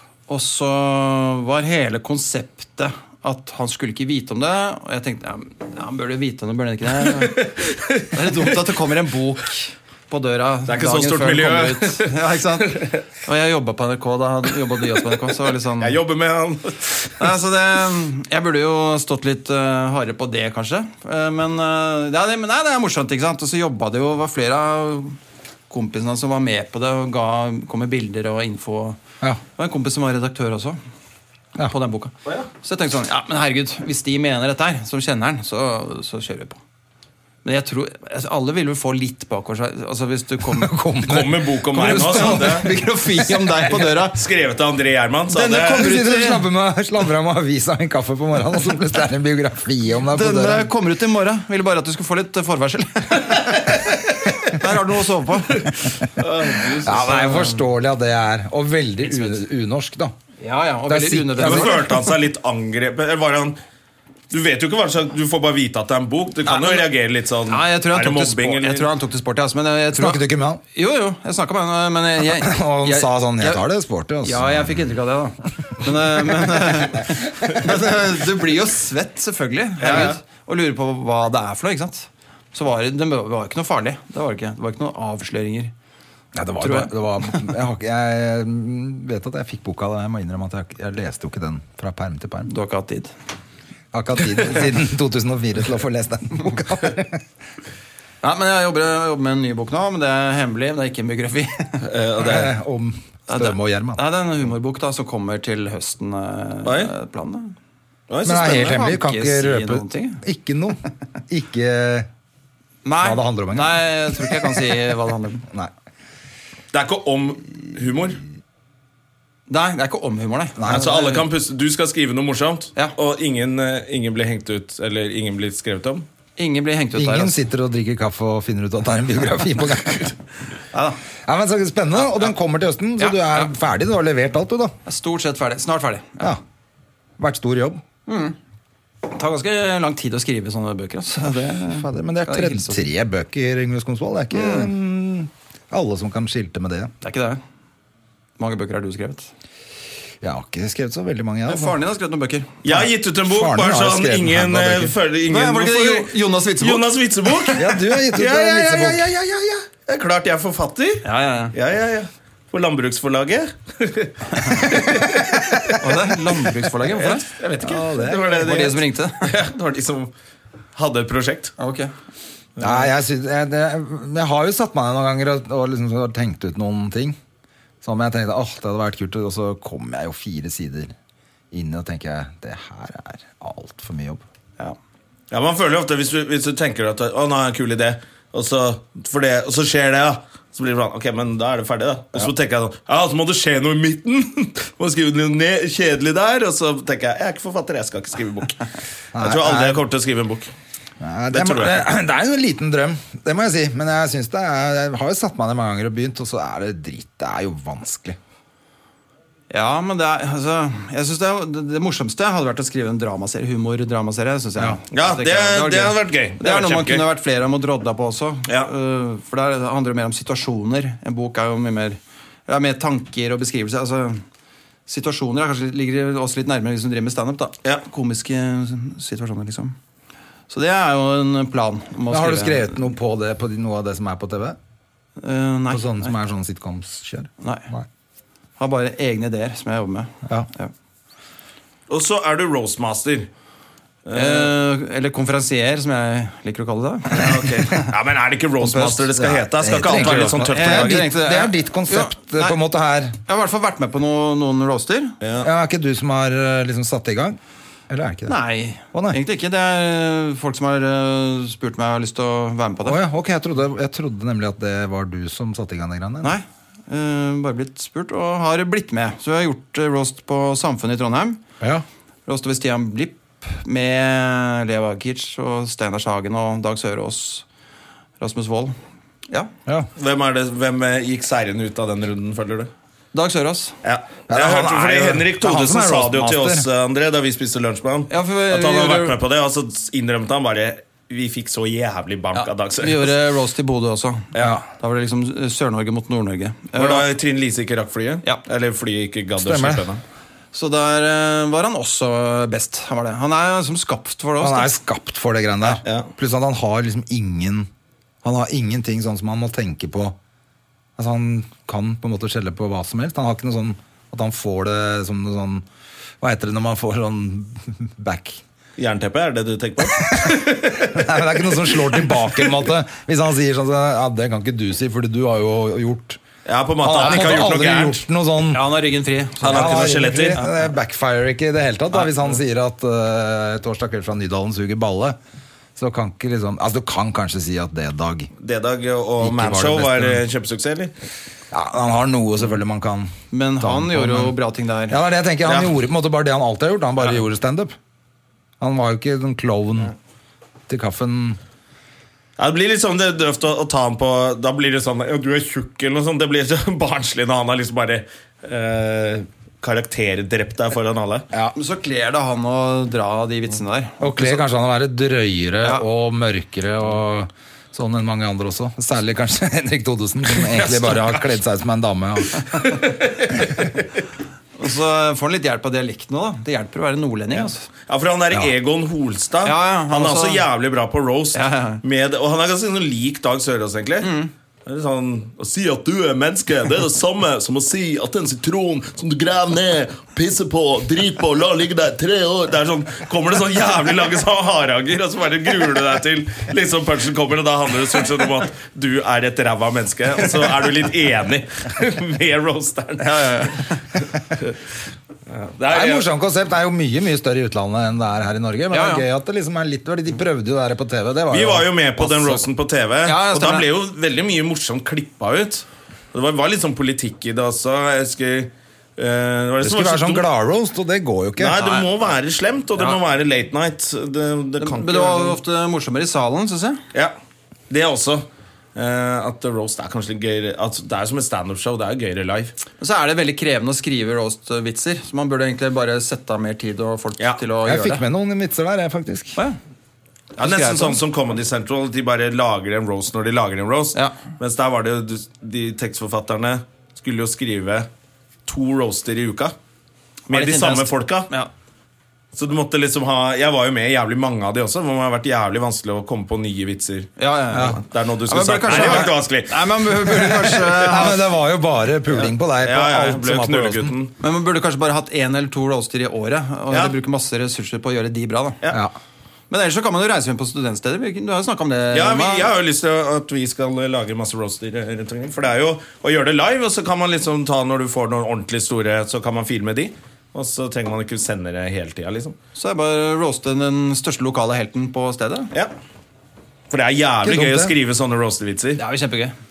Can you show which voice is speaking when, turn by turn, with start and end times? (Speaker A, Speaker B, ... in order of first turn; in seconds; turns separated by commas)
Speaker A: 0.3-7.6, Speaker B: 7.4-8.1, Speaker A: 8.1-16.0, Speaker B: 10.7-12.1, Speaker B: 15.8-17.1, Speaker A: 17.2-25.2, Speaker A: 25.7-30.8, Speaker A: 31.6-36.6, Speaker A: 37.4-40.7, Speaker C: 40.5-43.5, Speaker B: 41.1-42.7, Speaker A: 41.7-44.2, Speaker B: 43.8-45.9, Speaker A: 45.3-46.5, Speaker C: 45.7-50.7, Speaker A: 50.0-57.7, Speaker B: 56.2-57.2, Speaker C: 56.9-60.1, Speaker A: 59.0-59.4, Speaker A: 60.4-62.0, Speaker C: 60.9-62.0, Speaker B: 61.4-63.6, Speaker B: 64.3-68.9, Speaker A: 66.4-66.9, Speaker A: 67.5-73.6, Speaker C: 69.9-70.6, Speaker C: 72.2-74.9, Speaker A: 74.2-85.7, Speaker B: 79.8-80.2, Speaker C: 86.3-92.5, Speaker A: 86.6-87.5, Speaker A: 92.5-93.1, Speaker C: 93.9-97.2, Speaker A: 98.2-101.8, Speaker B: 101.8-102.5, Speaker C: 102.2-104.0, Speaker A: 103.3-107.6, Speaker B: 106.6-106.9, Speaker B: 108.1-108.8, Speaker C: 108.2-112.1, Speaker A: 108.5-110.2, Speaker A: 112.8-115.5, Speaker C: 113.0-114.5, Speaker B: 116.7-118.2, Speaker A: 119.5-121.3, Speaker C: 120.6-121.0, Speaker B: 120.7-126.1, Speaker A: 126.4-127.4, Speaker C: 127.0-130.1, Speaker A: 130.7-131.0, Speaker C: 131.2-134.8, Speaker A: 132.0-132.3, Speaker A: 133.0-133.5, Speaker A: 134.8-136.4, Speaker C: 137.2-137.8, Speaker A: 138.1-138.4, Speaker A: 139.1-142.8, Speaker C: 141.4-146.9, Speaker A: 144.3-144.7, Speaker A: 147.0-147.4, Speaker A: 148.4-149.3, Speaker C: 150.2-151.8, Speaker A: 151.5-152.6, Speaker B: 152.6-165.3, Speaker C: 152.7-155.0, Speaker A: 155.2-156.9, Speaker C: 157.5-159.1, Speaker A: 161.0-161.6, Speaker A: 164.4-164.8, Speaker A: 165.8-167.3, Speaker B: 166.9-170.1, Speaker C: 167.6-168.4, Speaker A: 168.2-169.3, Speaker B: 170.8-171.6, Speaker A: 171.6-171.9, Speaker B: 172.6-172.9, Speaker C: 172.6-177.2, Speaker C: 177.8-180.9, Speaker C: 181.5-184.2, Speaker B: 185.3-198.6, Speaker C: 199.2-199.8, Speaker B: 199.2-200.5, Speaker C: 201.0-208.2, Speaker B: 201.3-201.8, Speaker A: 209.5-224.2, Speaker B: 214.9-217.1, Speaker A: 224.9-229.8, Speaker A: 230.5-232.9, Speaker C: 232.1-234.6, Speaker A: 235.2-236.1, Speaker C: 235.7-237.9, Speaker A: 237.4-237.7, Speaker A: 238.6-240.7, Speaker B: 241.9-243.3, Speaker B: 244.1-244.5, Speaker A: 244.1-247.7, Speaker B: 247.1-251.1, Speaker A: 248.7-249.1, Speaker C: 249.2-253.2, Speaker A: 249.9-252.6, Speaker A: 253.2-255.2, Speaker B: 255.2-255.5, Speaker C: 255.4-258.4, Speaker A: 258.3-263.0, Speaker C: 258.9-259.2, Speaker C: 262.8-266.4, Speaker A: 266.2-271.4, Speaker A: 272.3-277.5, Speaker A: 278.2-278.8, Speaker B: 280.0-282.7, Speaker A: 283.1-283.8, Speaker B: 283.8-293.1, Speaker C: 284.3-286.7, Speaker A: 288.1-289.2, Speaker A: 292.4-297.1, Speaker C: 294.4-294.6, Speaker B: 296.7-300.0, Speaker C: 299.4-299.9, Speaker A: 300.5-304.7, Speaker C: 304.4-307.7, Speaker B: 305.8-306.1, Speaker C: 308.2-310.2, Speaker C: 311.0-315.7, Speaker C: 316.2-318.4, Speaker B: 318.8-322.4, Speaker C: 320.0-326.2, Speaker B: 326.5-328.0, Speaker C: 326.8-328.6, Speaker A: 326.9-327.5, Speaker A: 328.5-330.2, Speaker B: 329.4-330.4, Speaker C: 329.5-335.2, Speaker C: 335.8-338.3, Speaker B: 338.4-340.9, Speaker C: 339.2-340.2, Speaker C: 341.5-344.4, Speaker A: 343.3-345.0, Speaker C: 344.9-347.8, Speaker B: 345.4-345.7, Speaker C: 348.6-349.9, Speaker C: 350.7-351.4, Speaker B: 352.4-361.3, Speaker A: 361.6-364.4, Speaker C: 364.0-372.4, Speaker B: 370.3-371.3, Speaker B: 372.6-373.8, Speaker A: 374.6-377.7, Speaker B: 377.4-384.1, Speaker A: 379.4-380.5, Speaker A: 381.3-381.8, Speaker A: 384.0-384.3, Speaker B: 384.7-403.6, Speaker A: 403.0-404.0, Speaker B: 405.3-406.1, Speaker C: 405.7-412.4, Speaker A: 408.7-409.1, Speaker B: 411.3-420.3, Speaker A: 413.0-413.7, Speaker C: 419.6-421.6, Speaker B: 421.4-425.4, Speaker A: 421.6-421.9, Speaker A: 424.6-426.8, Speaker B: 427.7-432.6, Speaker A: 432.8-438.1, Speaker C: 437.6-439.4, Speaker A: 440.4-441.0, Speaker B: 440.4-447.9, Speaker B: 448.5-449.5, Speaker A: 450.3-451.5, Speaker B: 450.3-451.3, Speaker B: 452.3-460.9, Speaker A: 457.2-461.2, Speaker C: 457.5-457.8, Speaker C: 460.9-463.9, Speaker B: 462.6-464.1, Speaker A: 464.2-468.6, Speaker B: 466.7-466.9, Speaker A: 469.5-472.5, Speaker B: 471.9-482.4, Speaker A: 482.6-485.5, Speaker B: 486.7-488.8, Speaker C: 487.2-487.7, Speaker A: 488.8-489.4